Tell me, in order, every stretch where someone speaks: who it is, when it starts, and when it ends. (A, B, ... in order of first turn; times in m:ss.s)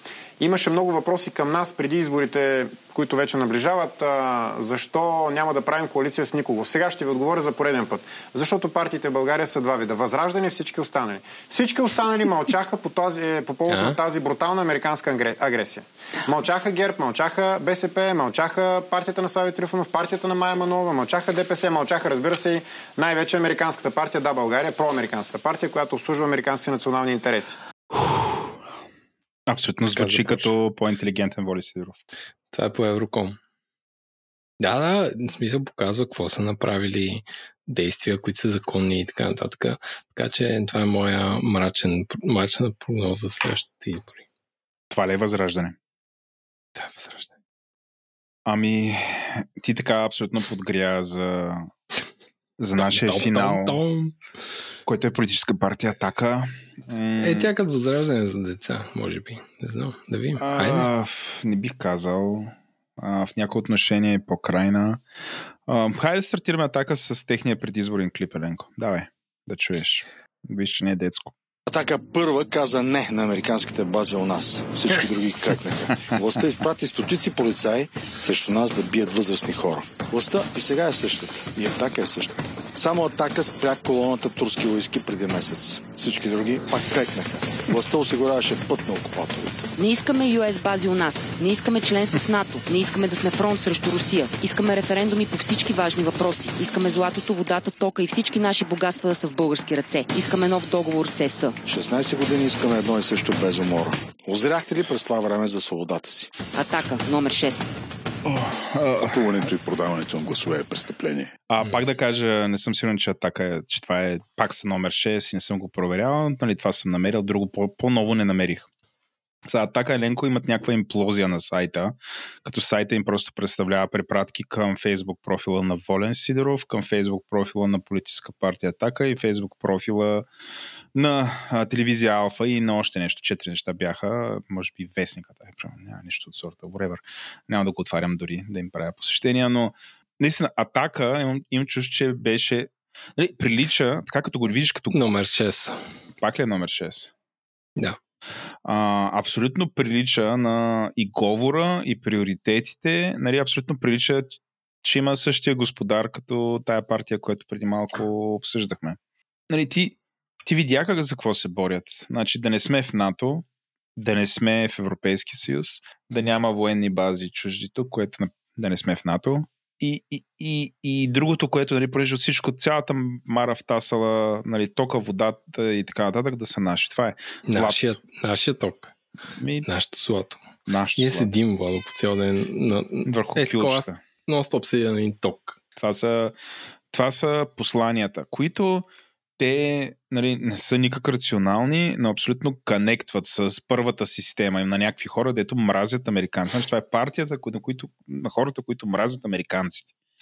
0:00.4-0:27.6 A
0:13.7-0:14.0 B
0:27.9-0:28.5 C
0:29.5-0:32.0 C
0:29.9-0:30.5 B
0:32.5-0:33.4 B
0:34.6-0:44.2 B
0:44.9-0:45.8 C
0:46.8-0:47.3 B
0:48.4-0:51.7 C
0:52.6-0:53.8 C
0:52.8-0:54.2 B
0:54.8-0:57.5 C
0:57.2-1:00.9 B
1:00.4-1:05.0 C
1:05.7-1:11.3 C
1:11.7-1:29.6 D
1:29.8-1:41.6 E
1:41.6-1:46.3 D
1:46.5-1:47.7 E
1:48.2-1:49.3 C
1:49.1-1:51.3 F
1:51.5-1:58.7 C
1:59.4-2:10.3 C
2:10.9-2:25.1 C
2:24.9-2:25.8 B
2:26.2-2:27.1 C
2:28.6-2:39.0 C
2:39.5-2:43.4 C
2:44.0-2:58.0 C
2:57.4-2:58.9 B
2:59.4-2:59.7 C
2:59.6-3:00.4 B
3:00.7-3:01.3 C
3:01.0-3:05.6 B
3:03.0-3:04.0 C
3:05.8-3:06.3 C
3:06.9-3:08.9 C
3:09.4-3:19.9 C